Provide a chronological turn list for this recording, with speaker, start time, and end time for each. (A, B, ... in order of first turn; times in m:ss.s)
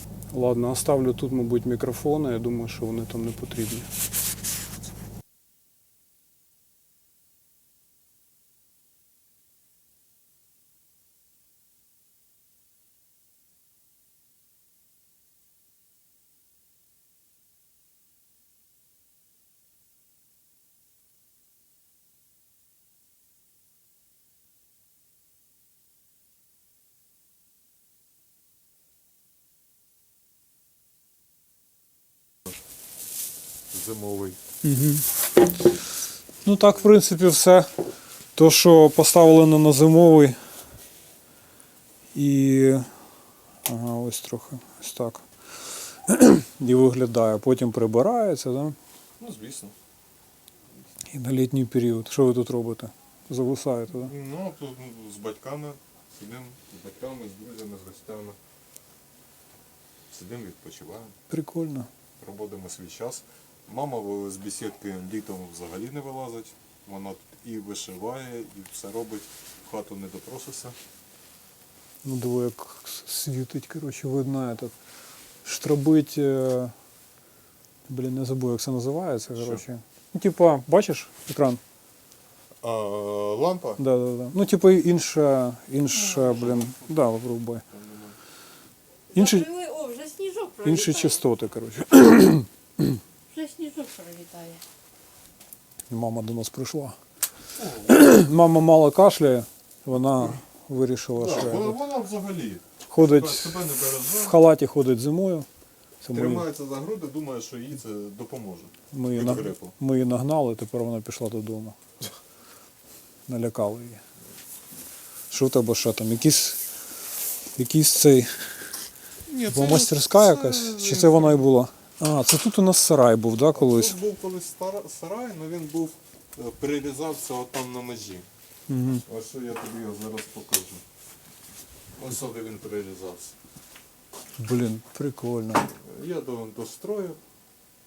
0:00.3-0:03.9 A
0:33.7-0:34.4 B
0:34.6-0:35.1 A
0:36.4-0:37.7 A
0:38.3-0:40.4 A
0:42.1-0:42.9 A
0:43.7-0:45.2 A
0:46.1-0:48.8 A
0:49.2-0:49.7 B
0:51.1-0:54.1 A
0:53.9-0:58.4 B
1:00.1-1:01.2 B
1:01.3-1:01.9 A
1:02.2-1:10.8 B
1:12.0-1:14.7 A
1:15.4-1:16.7 A
1:17.9-1:21.6 A
1:19.4-1:19.6 B
1:22.6-1:23.8 B
1:23.8-1:27.6 A
1:25.9-1:27.1 B
1:27.7-1:28.2 B
1:29.1-1:31.2 C
1:29.1-1:29.5 A
1:30.6-1:33.0 A
1:33.3-1:34.6 C
1:35.9-1:37.0 A
1:37.6-1:38.0 B
1:37.8-1:41.8 A
1:41.1-1:44.4 B
1:42.9-1:45.5 A
1:46.0-1:46.5 A
1:46.1-1:49.7 B
1:48.9-1:51.8 A
1:53.3-1:54.0 A
1:55.3-1:56.6 A
1:57.5-1:58.4 A
1:59.3-2:01.5 B
1:59.5-2:04.0 A
2:03.5-2:08.3 B
2:08.7-2:09.0 A
2:09.0-2:10.8 B
2:11.9-2:13.4 B
2:14.4-2:15.7 A
2:15.8-2:17.2 B